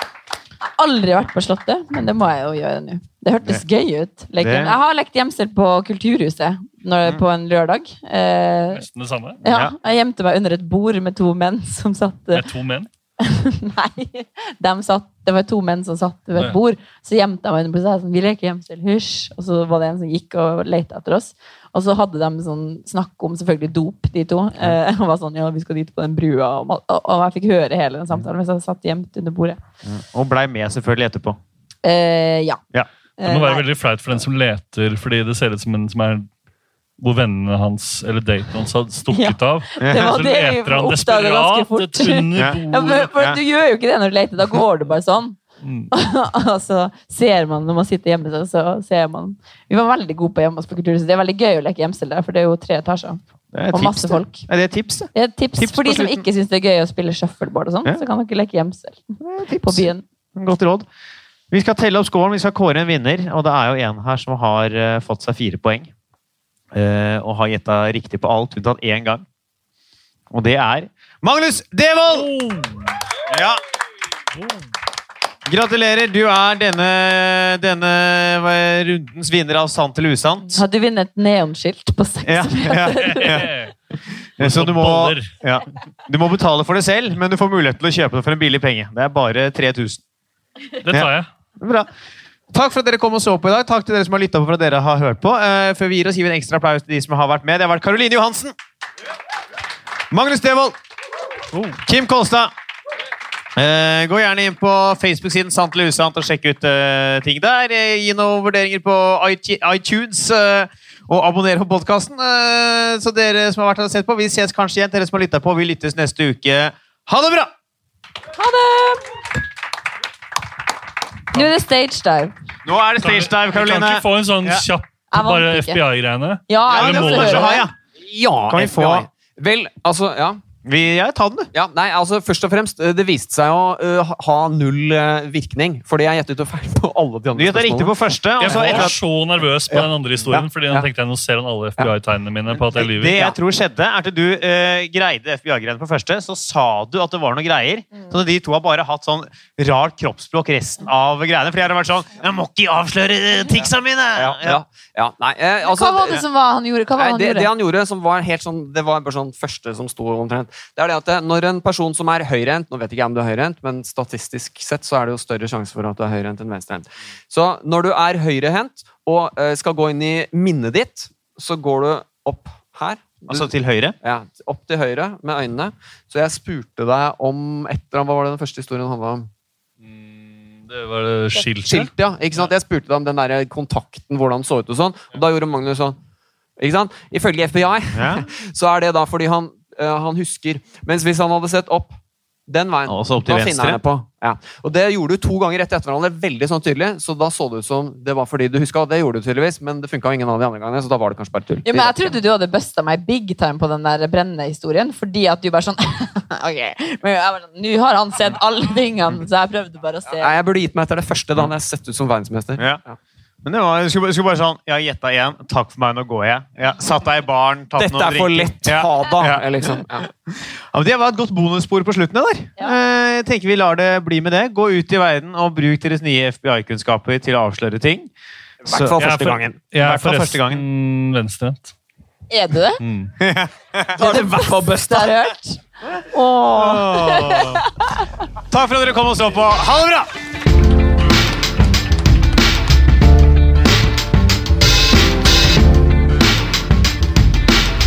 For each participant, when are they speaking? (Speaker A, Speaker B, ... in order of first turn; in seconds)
Speaker A: 0.8-8.8, 9.4-12.5, 13.2-29.6, 31.8-32.6, 33.2-33.6, 39.1-45.4, 45.9-53.2, 53.7-54.5, 55.1-60.0, 80.5-83.5, 118.3-119.2, 121.3-122.3, 125.1-125.8, 126.5-127.7, 155.6-157.5, 201.6-210.4, 232.3-232.8, 234.0-238.1
Speaker B: 4.4-4.8, 9.5-9.8, 29.9-31.4, 39.8-40.1, 53.5-56.2, 59.2-60.9, 61.5-65.9, 66.7-69.2, 70.3-72.3, 73.3-73.6, 75.5-80.6, 82.3-83.5, 84.4-90.0, 90.9-91.9, 92.5-98.5, 100.1-100.8, 101.9-102.5, 103.6-117.5, 122.6-124.7, 126.7-127.7, 128.5-129.1, 130.6-131.5, 137.3-139.0, 142.8-154.6, 173.3-174.0, 187.9-188.3, 192.9-193.8, 213.4-228.1, 228.7-229.0, 229.8-230.6, 233.2-234.0, 236.6-237.6, 238.5-240.1
Speaker C: 8.8-9.4, 12.3-12.9, 33.2-36.3, 37.0-43.1, 45.6-45.9, 72.1-73.0, 74.3-74.7, 83.0-83.7, 84.4-85.3, 90.8-91.3, 101.5-101.8, 123.0-127.5, 138.4-143.2, 179.8-182.5, 228.8-231.7, 232.8-233.1
Speaker D: 128.0-130.4, 131.5-138.9, 139.7-140.9, 154.2-156.2, 156.9-173.5, 174.0-179.3, 181.6-186.0, 186.6-191.9, 192.5-202.2, 210.2-213.0, 217.8-220.1, 228.6-229.6, 233.9-235.1